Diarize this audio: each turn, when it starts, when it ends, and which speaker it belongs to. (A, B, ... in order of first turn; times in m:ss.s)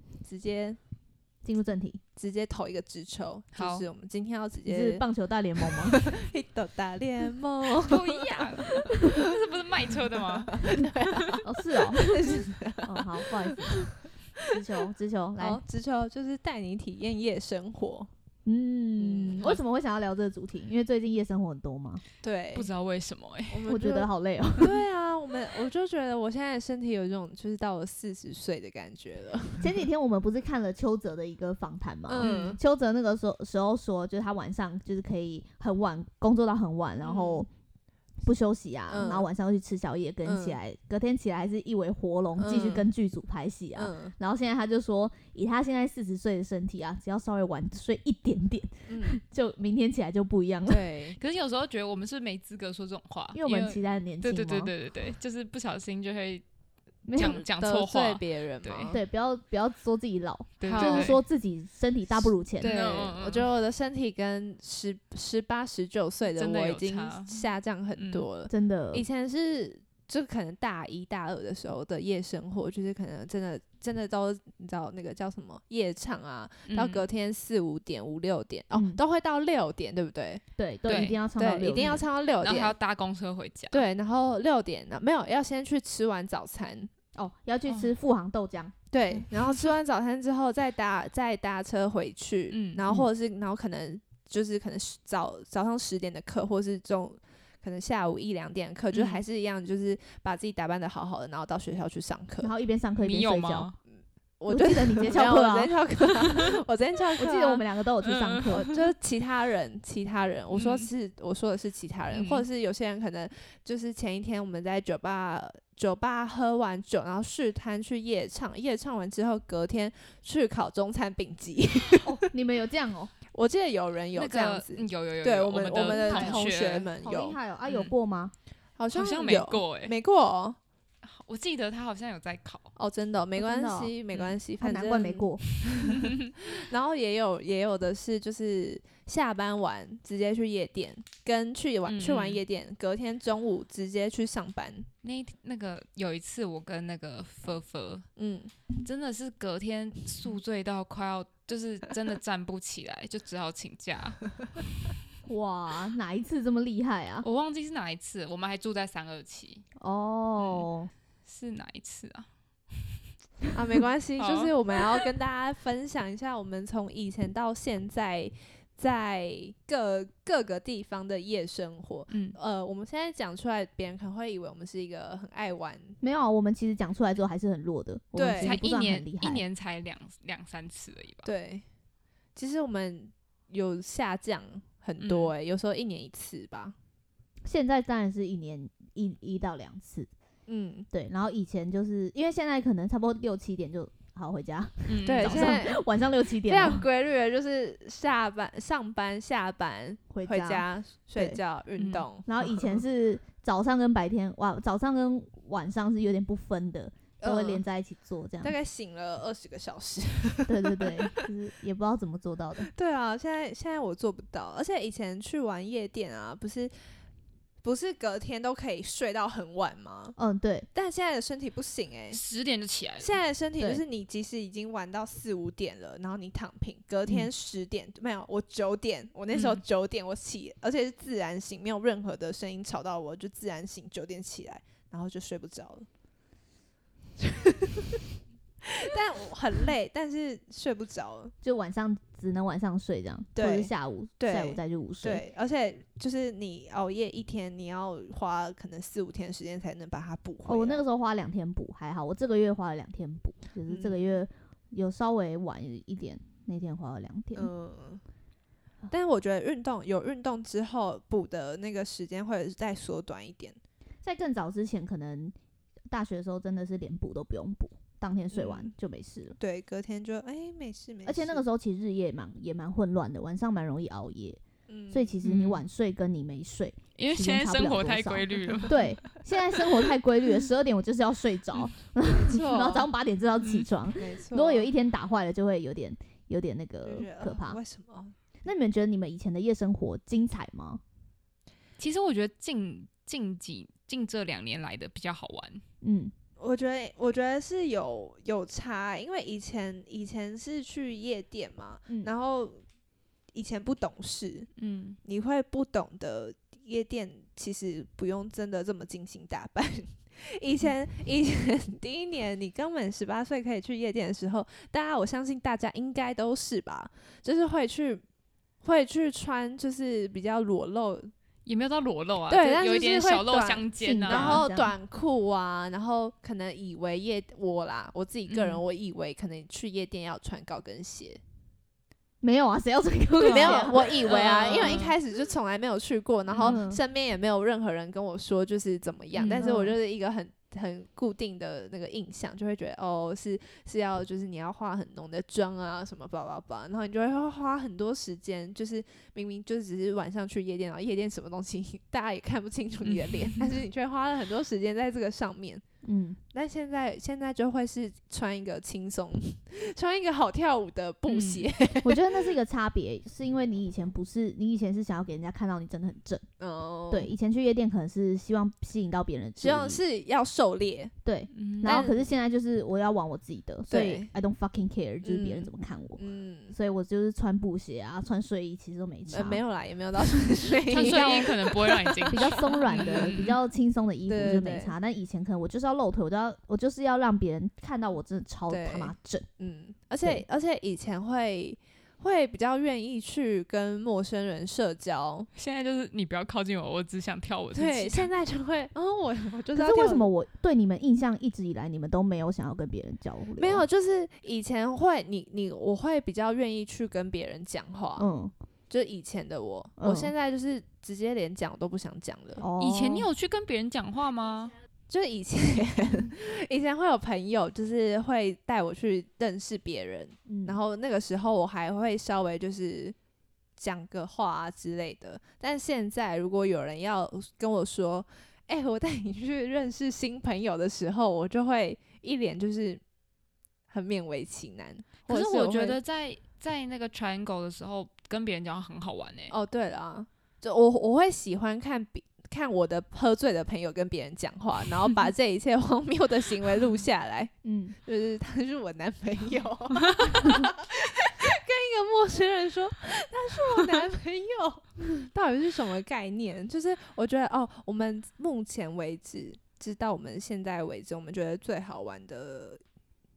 0:00.2-0:00.8 A
0:01.4-0:02.0 B
0:02.2-0:05.0 A
0:03.5-0:03.8 C
0:04.6-0:06.0 B
0:05.6-0:09.2 A
0:07.8-0:11.3 C
0:08.8-0:09.1 B
0:10.3-0:14.4 A
0:11.4-0:13.9 B
0:14.5-0:15.6 B
0:15.4-0:18.1 A
0:18.4-0:22.0 B
0:19.0-0:19.5 A
0:22.2-0:22.7 A
0:22.5-0:23.7 C
0:23.5-0:29.7 A
0:23.7-0:24.8 B
0:29.6-0:37.5 B
0:32.1-0:32.6 A
0:32.2-0:32.6 C
0:37.0-0:37.5 A
0:38.2-0:50.8 B
0:38.9-0:39.2 A
0:40.2-0:40.6 A
0:42.4-0:42.8 A
0:43.8-0:44.1 A
0:48.9-0:49.2 A
0:50.7-0:51.2 A
0:51.2-0:56.4 C
0:53.3-0:54.7 B
0:57.0-0:57.4 B
0:57.1-0:59.0 C
0:57.2-0:59.0 A
0:58.9-1:02.7 B
1:00.6-1:01.2 C
1:00.6-1:01.2 A
1:02.6-1:03.5 C
1:02.6-1:20.4 A
1:06.3-1:07.4 C
1:08.0-1:08.2 C
1:08.5-1:09.0 B
1:16.7-1:17.0 C
1:18.7-1:19.0 B
1:20.6-1:22.0 B
1:20.9-1:21.2 C
1:21.4-1:22.7 A
1:22.4-1:23.8 C
1:23.7-1:26.9 A
1:27.1-1:29.2 B
1:28.9-1:42.5 A
1:32.5-1:32.8 C
1:38.9-1:39.2 C
1:42.4-1:43.7 B
1:43.0-1:43.7 C
1:44.4-1:47.6 A
1:44.5-1:45.7 B
1:47.2-1:48.6 B
1:48.0-1:48.8 C
1:48.4-2:02.2 A
1:50.5-1:50.9 C
1:52.1-1:52.4 C
2:02.0-2:03.1 B
2:03.3-2:07.4 A
2:04.1-2:06.9 C
2:05.7-2:06.5 B
2:07.0-2:08.3 B
2:07.6-2:07.9 C
2:08.8-2:10.6 A
2:08.9-2:09.9 C
2:11.0-2:12.7 C
2:12.8-2:24.9 A
2:13.4-2:13.9 B
2:14.6-2:15.5 B
2:15.6-2:16.3 C
2:21.9-2:22.4 C
2:25.0-2:28.1 C
2:28.2-2:28.5 A
2:28.8-2:34.3 C
2:35.2-2:37.2 B
2:37.2-2:39.6 C
2:39.8-2:40.9 B
2:40.4-2:40.7 C
2:41.2-2:42.9 C
2:43.5-2:56.0 A
2:44.2-2:45.0 C
2:52.1-2:52.4 C
2:56.0-2:59.4 B
2:58.2-2:58.6 A
2:58.4-3:01.3 C
3:01.2-3:01.6 A
3:02.3-3:06.7 A
3:05.0-3:05.3 C
3:07.4-3:10.1 B
3:10.5-3:10.9 A
3:10.9-3:16.8 B
3:14.9-3:15.6 C
3:15.0-3:15.8 A
3:16.4-3:22.6 A
3:20.1-3:20.6 B
3:21.8-3:22.0 C
3:22.3-3:28.5 B
3:27.2-3:27.6 A
3:28.4-3:31.2 A
3:30.5-3:32.7 B
3:32.6-3:36.7 A
3:37.6-3:40.2 A
3:40.2-3:40.7 B
3:40.7-3:42.2 A
3:42.1-3:43.2 C
3:43.0-3:55.8 A
3:49.3-3:49.6 C
3:57.2-3:58.0 A
3:58.6-4:01.3 A
4:01.4-4:05.2 B
4:03.3-4:10.8 A
4:10.4-4:17.5 B
4:13.6-4:14.1 A
4:17.3-4:18.0 A
4:18.9-4:23.6 A
4:24.0-4:25.3 B
4:25.9-4:29.4 B
4:28.3-4:28.7 A
4:29.4-4:31.4 A
4:31.0-4:34.4 B
4:34.7-4:35.2 A
4:34.9-4:47.6 B
4:35.2-4:35.6 C
4:37.0-4:38.8 C
4:42.1-4:42.9 A
4:43.9-4:44.7 A
4:46.8-4:48.1 A
4:48.4-4:50.8 B
4:51.8-4:55.6 C
4:55.8-4:56.1 B
4:56.4-5:02.6 A
5:03.3-5:04.5 A
5:04.6-5:05.0 C
5:05.0-5:18.0 A
5:18.6-5:21.1 A
5:21.4-5:24.4 C
5:22.3-5:31.2 A
5:23.8-5:24.7 B
5:28.3-5:28.6 C
5:32.2-5:34.8 B
5:33.2-5:34.9 C
5:33.2-5:55.6 A
5:36.3-5:36.6 C
5:36.4-5:36.8 B
5:39.1-5:39.4 C
5:39.3-5:39.7 B
5:52.8-5:53.6 C
5:55.8-5:56.2 B
5:56.3-6:02.3 A
6:01.1-6:01.5 C
6:01.8-6:06.2 B
6:06.4-6:07.1 A
6:06.9-6:09.8 B
6:09.4-6:10.9 A
6:11.0-6:19.4 B
6:11.3-6:11.9 C
6:11.6-6:12.0 A
6:13.7-6:14.1 A
6:15.0-6:16.5 A
6:19.1-6:23.2 A
6:20.7-6:23.3 C
6:20.8-6:21.2 B
6:22.1-6:29.3 B
6:24.1-6:24.7 A
6:28.5-6:35.3 A
6:35.3-6:38.1 C
6:37.5-6:40.1 A
6:39.5-6:43.6 B
6:43.4-6:48.1 A
6:48.0-6:48.3 B
6:48.7-6:52.4 A
6:49.8-6:50.1 B
6:52.4-6:53.1 B
6:52.6-6:54.6 C
6:54.9-7:02.9 A
7:00.3-7:00.6 B
7:03.6-7:12.8 A
7:13.7-7:15.8 A
7:15.1-7:19.3 C
7:19.3-7:27.3 A
7:27.4-7:27.8 B
7:27.8-7:42.6 A